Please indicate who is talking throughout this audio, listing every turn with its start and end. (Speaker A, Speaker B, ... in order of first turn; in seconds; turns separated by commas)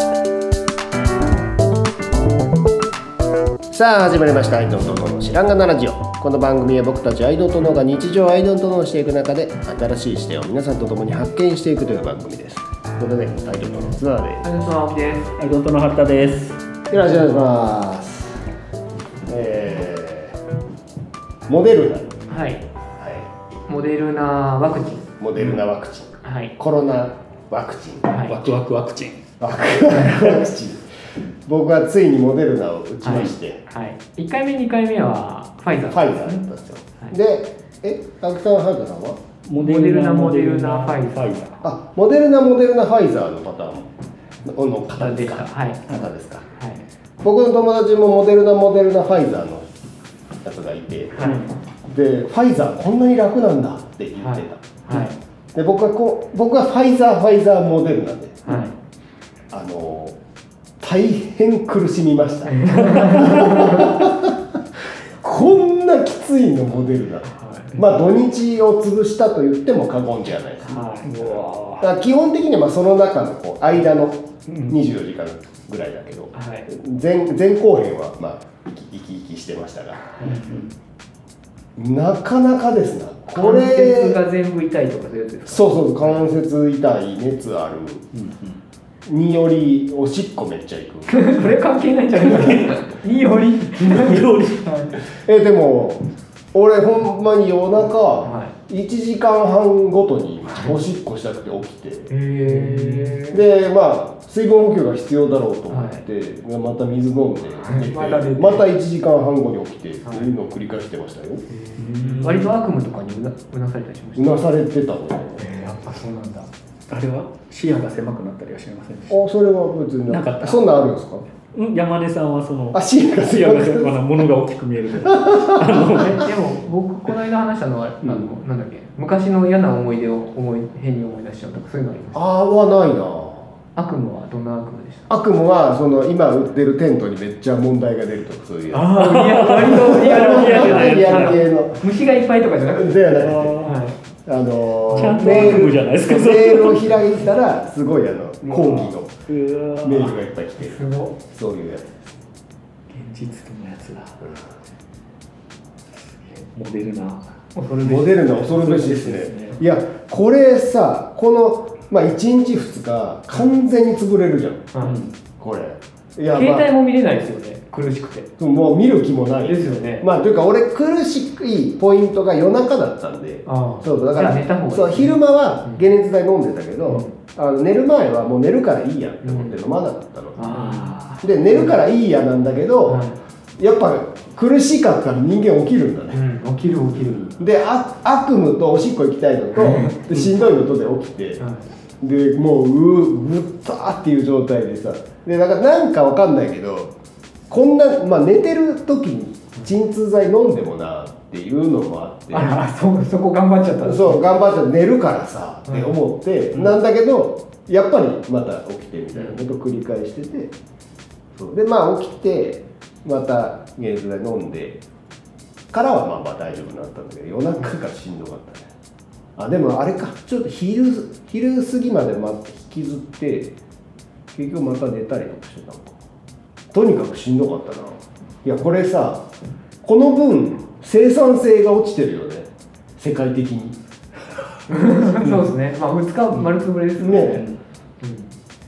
Speaker A: 3.7-14.5, Speaker B: 14.4-15.4, Speaker C: 15.4-16.6, Speaker A: 16.9-18.4, Speaker B: 16.9-17.5, Speaker A: 19.3-20.4, Speaker A: 21.5-22.2, Speaker B: 22.3-22.6, Speaker A: 23.0-23.3, Speaker B: 23.7-25.1, Speaker A: 25.2-28.2, Speaker B: 26.2-26.5, Speaker B: 28.1-28.4, Speaker C: 28.2-29.2, Speaker A: 29.4-30.9, Speaker B: 30.0-30.3, Speaker A: 31.5-33.6, Speaker B: 33.0-36.4, Speaker A: 35.9-39.2, Speaker C: 39.5-41.5, Speaker B: 39.6-41.6, Speaker A: 41.6-43.9, Speaker A: 44.4-46.5, Speaker B: 44.9-45.9, Speaker B: 46.5-46.8, Speaker A: 47.2-49.7, Speaker A: 50.4-54.6, Speaker B: 51.1-51.4, Speaker C: 51.2-51.5, Speaker B: 54.2-55.2, Speaker A: 55.5-58.5, Speaker B: 58.5-58.7, Speaker A: 59.5-60.2, Speaker A: 60.8-64.4, Speaker B: 62.5-64.1, Speaker A: 65.2-80.4, Speaker B: 67.3-67.7, Speaker B: 70.7-71.1, Speaker C: 71.0-71.9, Speaker C: 74.5-74.8, Speaker B: 76.3-76.7, Speaker B: 80.1-80.4, Speaker C: 80.2-80.7, Speaker A: 81.8-84.2, Speaker B: 83.3-86.2, Speaker A: 85.5-88.1, Speaker C: 88.1-88.6, Speaker A: 89.1-91.4, Speaker B: 91.1-95.0, Speaker C: 92.2-92.7, Speaker C: 93.8-94.9, Speaker A: 95.1-102.1, Speaker B: 98.2-98.5, Speaker B: 100.5-100.8, Speaker B: 102.1-103.4, Speaker C: 102.5-103.2, Speaker A: 103.3-111.4, Speaker B: 105.7-106.0, Speaker B: 107.6-108.7, Speaker B: 110.0-110.3, Speaker B: 111.5-114.5, Speaker C: 111.8-112.5, Speaker A: 114.2-115.5, Speaker B: 115.4-116.5, Speaker C: 116.9-119.2, Speaker A: 119.1-121.2, Speaker C: 120.1-120.6, Speaker C: 121.5-126.3, Speaker A: 122.7-124.0, Speaker A: 125.1-126.1, Speaker B: 125.8-132.2, Speaker A: 128.0-128.3, Speaker A: 132.1-133.5, Speaker B: 133.7-135.1, Speaker A: 135.1-141.8, Speaker B: 138.7-144.0, Speaker C: 138.9-141.4, Speaker A: 142.7-143.6, Speaker C: 143.1-143.8, Speaker A: 144.2-149.1, Speaker C: 144.9-147.1, Speaker B: 144.9-145.5, Speaker C: 148.4-150.2, Speaker A: 149.8-152.2, Speaker B: 150.6-151.2, Speaker C: 152.9-154.2, Speaker C: 156.3-157.3, Speaker B: 157.5-158.3, Speaker A: 157.8-164.7, Speaker C: 158.4-159.6, Speaker C: 164.8-165.1, Speaker A: 165.4-166.7, Speaker B: 166.3-168.3, Speaker A: 168.4-180.4, Speaker B: 169.4-170.1, Speaker B: 173.4-175.8, Speaker B: 176.8-177.1, Speaker B: 179.2-179.6, Speaker B: 180.3-181.8, Speaker C: 180.5-181.0, Speaker A: 181.2-183.0, Speaker B: 182.8-183.2, Speaker A: 183.6-186.2, Speaker B: 186.1-187.4, Speaker A: 187.3-191.4, Speaker B: 189.5-190.5, Speaker B: 191.4-191.7, Speaker A: 192.0-196.9, Speaker A: 197.5-202.6, Speaker B: 202.3-204.3, Speaker A: 203.8-210.5, Speaker B: 205.7-205.9, Speaker B: 209.1-209.4, Speaker A: 211.3-214.8, Speaker A: 215.7-218.7, Speaker A: 219.4-223.5, Speaker A: 224.3-226.0, Speaker A: 226.7-229.3, Speaker A: 229.8-233.8, Speaker B: 234.7-237.4, Speaker C: 235.2-235.4, Speaker A: 237.0-237.5, Speaker C: 237.2-237.6, Speaker B: 238.0-238.3